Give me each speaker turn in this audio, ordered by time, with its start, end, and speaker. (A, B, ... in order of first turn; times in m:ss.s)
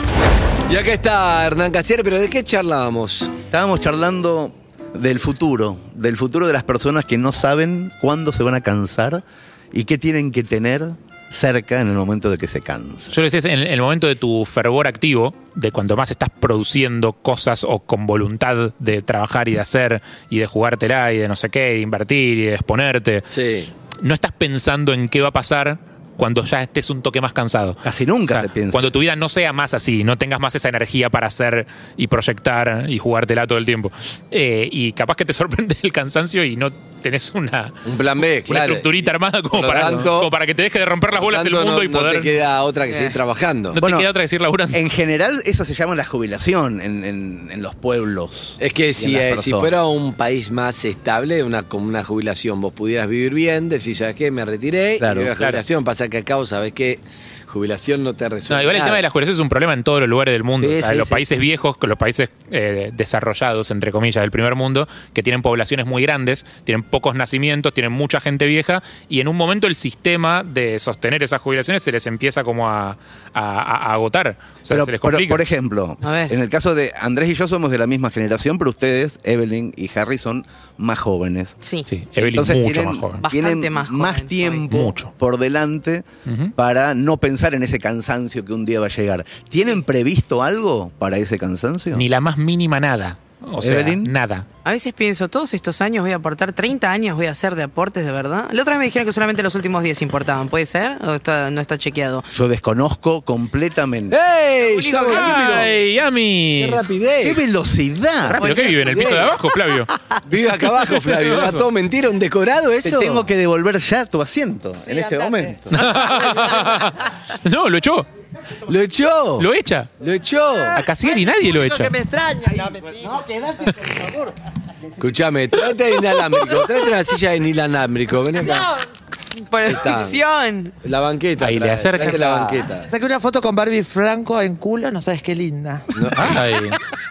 0:00.7-0:03.3 A
0:03.5-0:13.2 B
0:13.1-0:23.2 C
0:23.3-0:23.7 A
0:24.0-0:37.8 C
0:27.8-0:28.9 B
0:37.8-0:38.9 A
0:38.4-0:42.3 C
0:39.5-0:40.3 A
0:39.8-0:40.1 B
0:41.2-0:43.8 A
0:42.9-0:43.2 D
0:43.7-0:44.8 C
0:43.8-0:44.1 B
0:44.7-0:49.7 B
0:48.6-0:59.0 A
0:55.0-0:55.3 B
0:55.4-0:55.6 C
0:58.5-1:15.4 C
1:00.6-1:01.2 B
1:14.7-1:21.6 B
1:16.0-1:16.3 D
1:21.6-1:21.9 D
1:21.9-1:23.2 C
1:22.2-1:32.1 B
1:23.2-1:24.7 D
1:24.7-1:25.1 C
1:26.3-1:26.5 C
1:31.9-1:34.5 C
1:33.6-1:34.1 B
1:34.6-1:42.3 D
1:42.3-1:44.2 B
1:44.1-1:45.4 A
1:44.6-1:45.5 D
1:45.1-1:46.9 C
1:45.1-1:45.7 B
1:46.6-1:47.4 A
1:47.2-1:48.4 B
1:48.3-1:49.9 C
1:48.4-1:49.2 D
1:48.5-1:49.4 A
1:49.9-1:50.2 D
1:50.2-1:53.2 A
1:51.1-1:51.6 C
1:52.8-1:55.8 B
1:54.8-1:56.8 E
1:55.7-1:58.1 C
1:58.7-1:59.5 A
1:59.4-1:59.9 C
2:00.0-2:00.8 A
2:00.8-2:02.0 C
2:00.8-2:03.2 E
2:02.5-2:04.4 B
2:05.0-2:08.7 A
2:08.4-2:08.8 E
2:09.4-2:10.8 D
2:09.6-2:10.2 A
2:10.8-2:12.9 A
2:11.4-2:12.5 C
2:12.9-2:16.4 E
2:16.0-2:16.4 A
2:16.2-2:16.8 C